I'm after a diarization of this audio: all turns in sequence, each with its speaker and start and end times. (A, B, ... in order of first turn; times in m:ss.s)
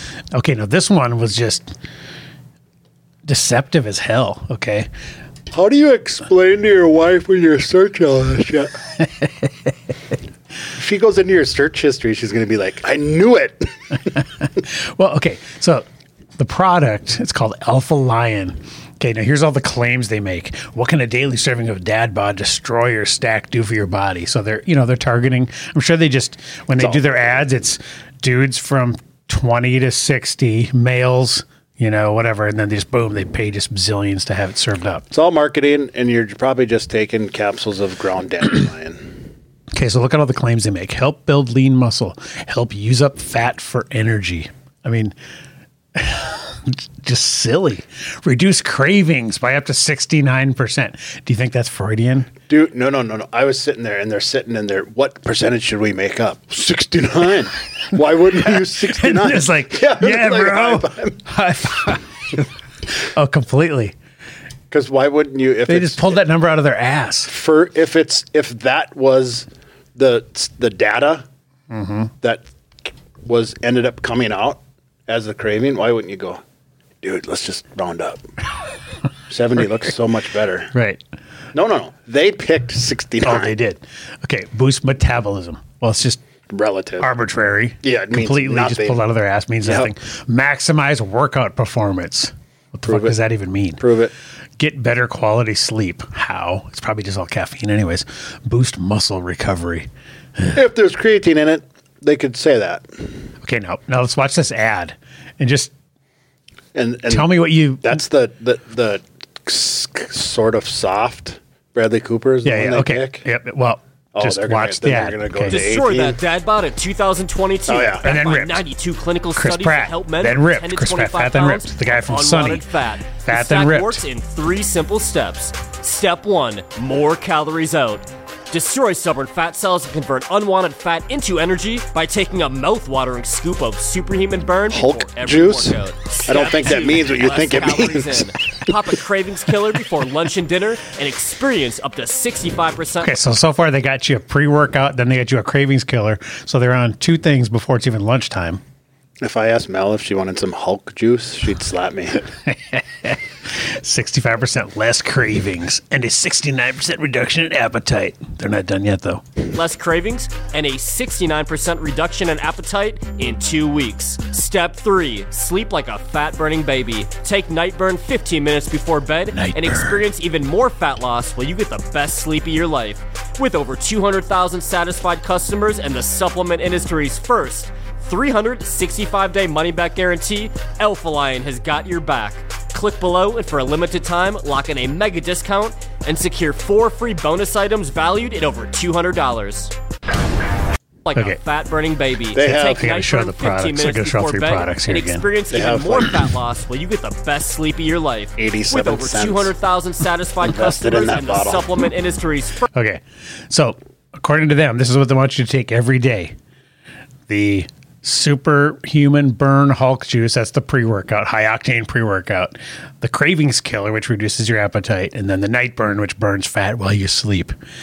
0:00.3-0:01.8 A
0:03.2-0:04.9 A
0:05.5-0:08.8 B
0:10.7-0:14.0 B
0:14.2-0:15.8 A
0:16.4-0:35.1 A
0:26.8-0:27.1 B
0:35.1-0:39.3 B
0:39.7-0:45.1 A
0:46.0-0:52.3 A
0:52.5-1:01.3 B
0:58.6-1:04.0 A
1:04.7-1:06.2 B
1:05.7-1:07.3 A
1:07.3-1:11.3 B
1:11.7-1:12.1 A
1:13.2-1:16.4 B
1:17.0-1:18.2 B
1:19.3-1:20.7 B
1:20.7-1:21.0 A
1:21.5-1:23.6 B
1:23.2-1:26.2 A
1:26.5-1:27.1 B
1:27.0-1:33.8 A
1:27.8-1:29.1 B
1:29.6-1:29.9 B
1:32.9-1:33.2 B
1:33.8-1:34.1 B
1:34.6-1:40.6 A
1:40.5-1:43.0 B
1:43.4-1:45.7 A
1:46.8-1:53.3 B
1:47.1-1:48.0 A
1:52.4-1:55.7 A
1:54.1-1:56.2 B
1:55.5-2:23.1 C
1:57.7-1:58.1 B
1:58.0-1:58.6 A
1:59.4-2:02.7 A
2:03.2-2:04.0 A
2:14.7-2:18.7 B
2:23.0-2:28.6 A
2:29.2-2:32.3 B
2:32.5-2:39.2 A
2:39.5-3:09.7 C
2:49.3-2:50.0 A
3:11.0-3:22.7 C
3:12.3-3:12.9 B
3:12.8-3:15.3 A
3:15.5-3:16.3 B
3:18.4-3:19.5 B
3:20.4-3:21.8 B
3:22.7-3:26.4 A
3:27.3-3:37.6 A